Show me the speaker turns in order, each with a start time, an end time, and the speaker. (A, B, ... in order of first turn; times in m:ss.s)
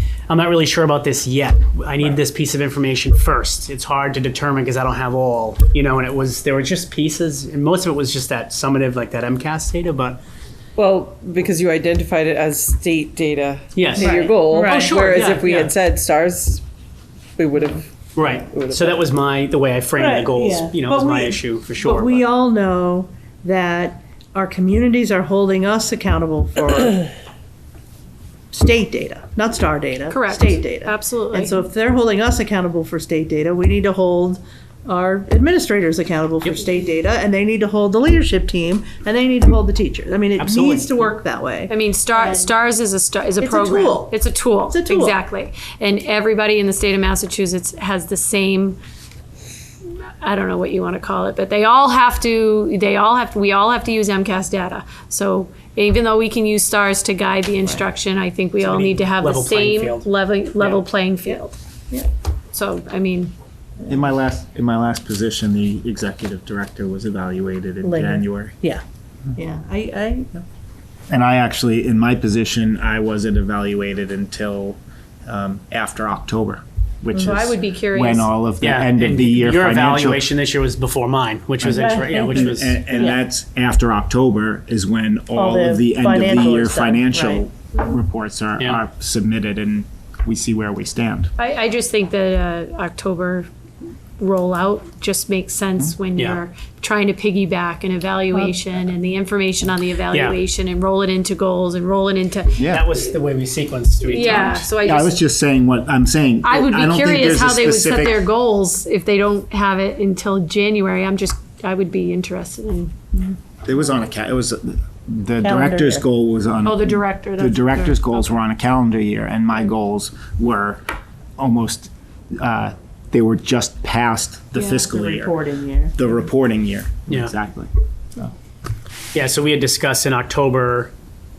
0:00.3-0:10.2 A
0:10.8-0:16.6 B
0:13.8-0:15.7 A
0:14.0-0:14.9 C
0:17.4-0:17.9 B
0:18.2-0:22.3 A
0:18.5-0:18.9 B
0:20.0-0:27.1 C
0:28.5-0:42.5 C
0:30.1-0:31.6 D
0:40.4-0:41.1 A
0:41.7-0:48.8 D
0:43.4-0:45.2 C
0:50.2-1:01.6 D
0:58.6-1:00.1 A
1:00.6-1:00.8 A
1:02.5-1:03.3 D
1:03.9-1:08.6 E
1:07.8-1:08.8 C
1:09.4-1:10.4 C
1:11.1-1:20.3 E
1:17.1-1:18.3 D
1:18.6-1:23.2 A
1:21.6-1:31.3 E
1:21.7-1:22.5 C
1:25.3-1:27.4 C
1:31.4-1:33.5 D
1:34.2-1:42.6 D
1:40.1-1:40.4 A
1:42.6-1:42.9 E
1:42.6-1:44.6 A
1:44.1-1:45.2 D
1:44.2-1:48.3 E
1:46.4-1:52.9 D
1:53.6-2:00.9 E
1:55.4-1:56.0 C
1:56.6-1:58.3 D
2:01.4-2:05.4 E
2:04.6-2:06.2 C
2:06.0-2:07.7 E
2:07.1-2:07.3 A
2:09.1-2:10.9 A